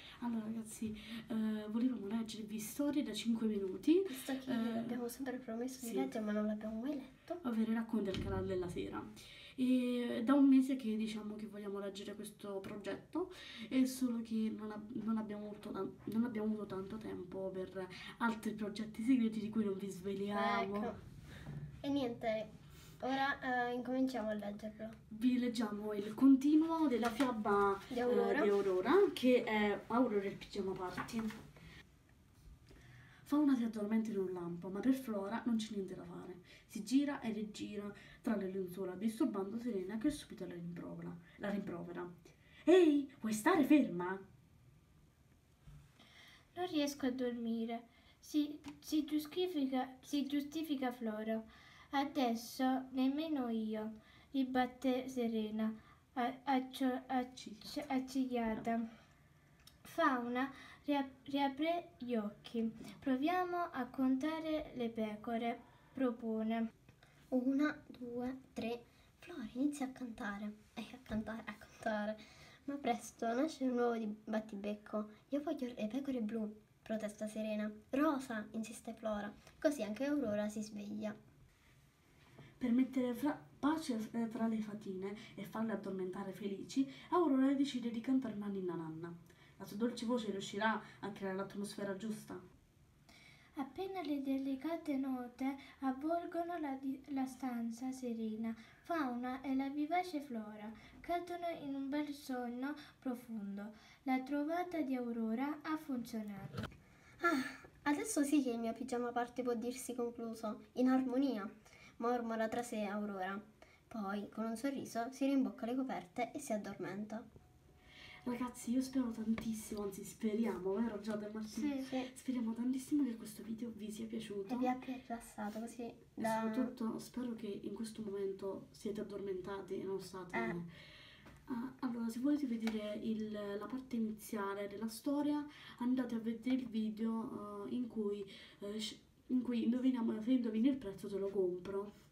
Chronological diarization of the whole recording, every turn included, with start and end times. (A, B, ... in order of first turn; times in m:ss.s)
0:00.2-0:05.0 A
0:04.1-0:07.4 B
0:05.8-0:06.1 A
0:07.4-0:20.9 A
0:20.3-0:21.0 B
0:21.8-0:25.0 B
0:25.1-0:31.4 A
0:27.9-0:28.5 B
0:33.2-0:44.2 A
0:46.5-0:58.9 C
0:57.4-0:57.8 A
0:59.8-1:06.7 C
1:07.3-1:21.2 B
1:22.6-1:32.4 A
1:33.6-1:46.7 C
1:47.2-1:57.2 B
1:58.2-2:04.7 A
2:01.6-2:02.1 B
2:04.5-2:06.7 B
2:06.2-2:10.7 A
2:10.3-2:10.6 B
2:11.5-2:21.9 A